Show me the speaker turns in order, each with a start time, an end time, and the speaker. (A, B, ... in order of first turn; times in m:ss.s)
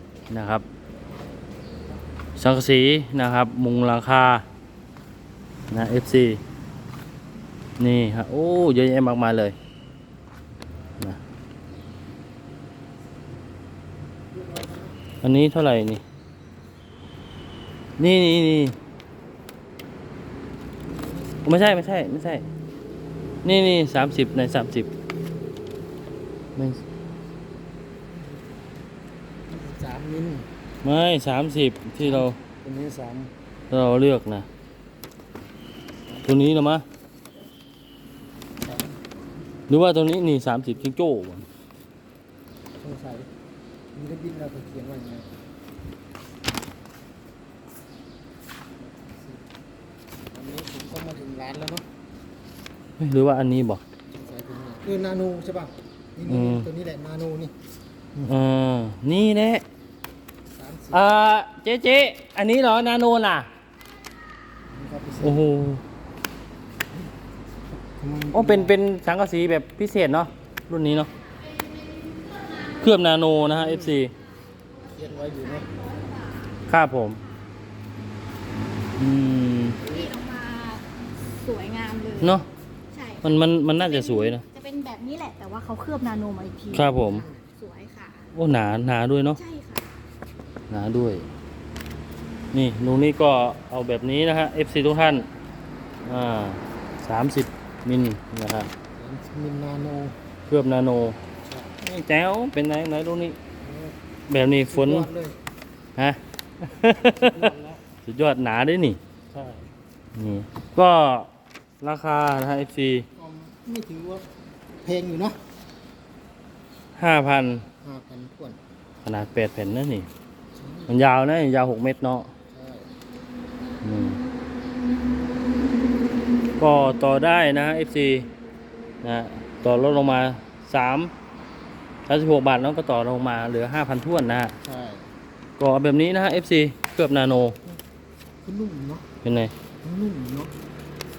0:00.3-0:00.6 A
0:02.4-0:04.4 A
0:05.7-0:06.4 A
0:07.8-0:09.6 A
0:14.3-0:14.9 B
0:15.2-0:16.0 A
0:18.0-0:18.8 A
0:20.9-0:21.3 B
0:21.4-0:22.4 A
0:23.4-0:24.9 A
0:26.6-0:26.8 A
0:29.5-0:30.5 B
0:30.8-0:32.4 A
0:32.0-0:33.3 B
0:33.7-0:34.4 A
0:36.2-0:36.8 A
0:38.6-0:39.0 B
0:39.7-0:41.4 A
0:42.8-0:43.3 B
0:43.9-0:45.3 B
0:49.0-0:49.4 B
0:50.3-0:51.8 B
0:53.0-0:53.8 A
0:54.1-0:57.5 B
0:56.2-0:56.7 A
0:58.2-0:59.6 A
1:00.5-1:01.1 B
1:00.9-1:03.5 A
1:04.7-1:05.4 B
1:05.2-1:05.8 A
1:07.8-1:08.7 B
1:08.3-1:11.1 A
1:12.8-1:14.1 A
1:13.6-1:13.9 B
1:14.9-1:15.7 B
1:15.7-1:16.6 C
1:16.6-1:17.2 A
1:19.0-1:19.8 A
1:19.8-1:22.4 C
1:22.2-1:22.5 A
1:22.9-1:28.3 C
1:23.2-1:24.4 A
1:26.7-1:27.3 A
1:28.3-1:29.4 A
1:29.4-1:29.9 C
1:30.7-1:31.2 A
1:32.5-1:35.3 A
1:36.0-1:38.7 A
1:38.9-1:40.1 B
1:40.5-1:41.2 A
1:41.4-1:41.7 B
1:41.8-1:43.4 A
1:43.6-1:44.0 B
1:44.3-1:45.1 A
1:44.6-1:45.4 B
1:46.0-1:47.5 A
1:47.2-1:47.8 B
1:48.0-1:49.0 A
1:49.3-1:49.7 B
1:50.2-1:51.3 A
1:51.8-1:53.1 A
1:53.1-1:54.3 B
1:54.8-1:55.4 B
1:57.0-1:57.6 A
1:57.8-1:58.6 B
1:59.0-2:00.1 A
2:00.5-2:00.9 B
2:00.9-2:02.3 A
2:02.5-2:02.9 B
2:03.8-2:04.2 A
2:06.6-2:08.3 A
2:09.0-2:11.1 A
2:12.1-2:14.6 A
2:14.6-2:15.1 B
2:15.6-2:17.6 A
2:18.4-2:19.0 B
2:19.2-2:19.5 A
2:19.8-2:20.5 B